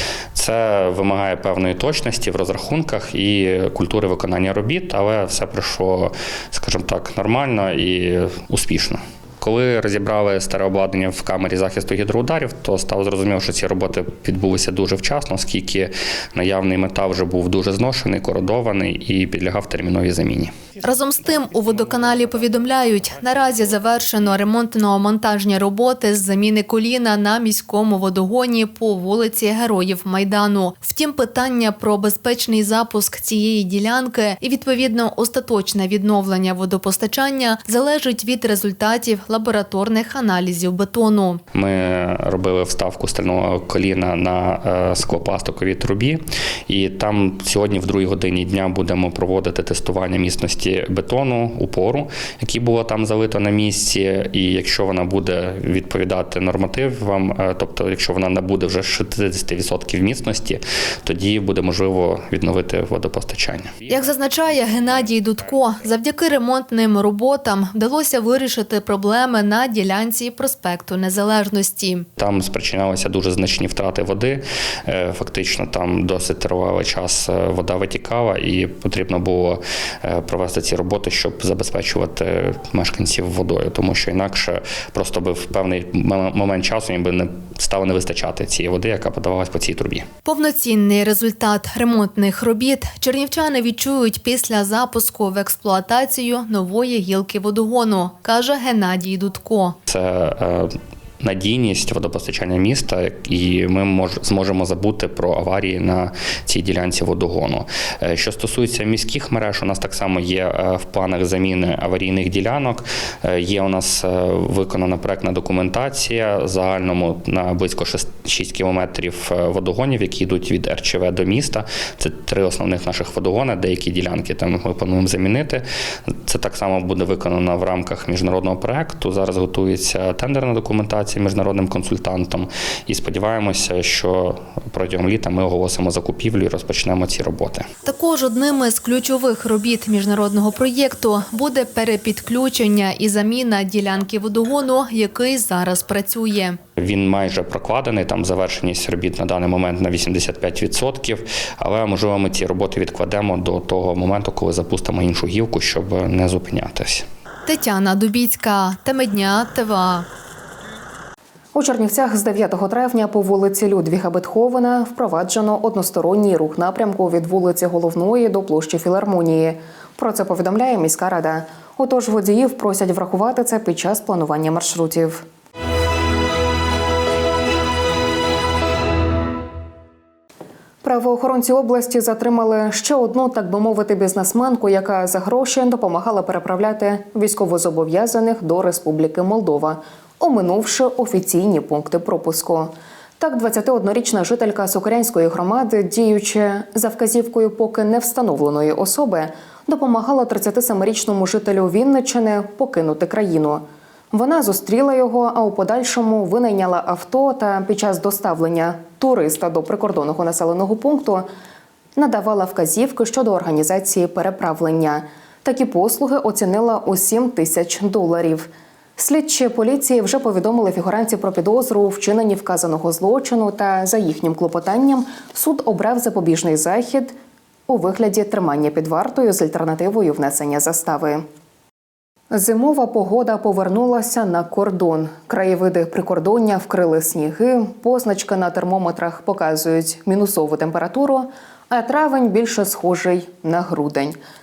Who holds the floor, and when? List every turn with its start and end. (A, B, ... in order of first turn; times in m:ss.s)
0:00.3-0:20.6 A
0:20.8-0:41.4 B
0:41.5-1:03.7 A
1:03.9-1:12.1 B
1:12.2-1:30.1 A
1:30.2-1:39.8 B
1:39.9-2:17.7 A
2:17.9-2:26.6 B
2:26.8-2:37.1 A
2:37.5-2:40.1 B
2:41.5-2:55.2 C
3:00.8-3:31.3 C
3:32.0-3:47.2 C
3:47.7-3:51.2 C
3:52.3-4:04.2 C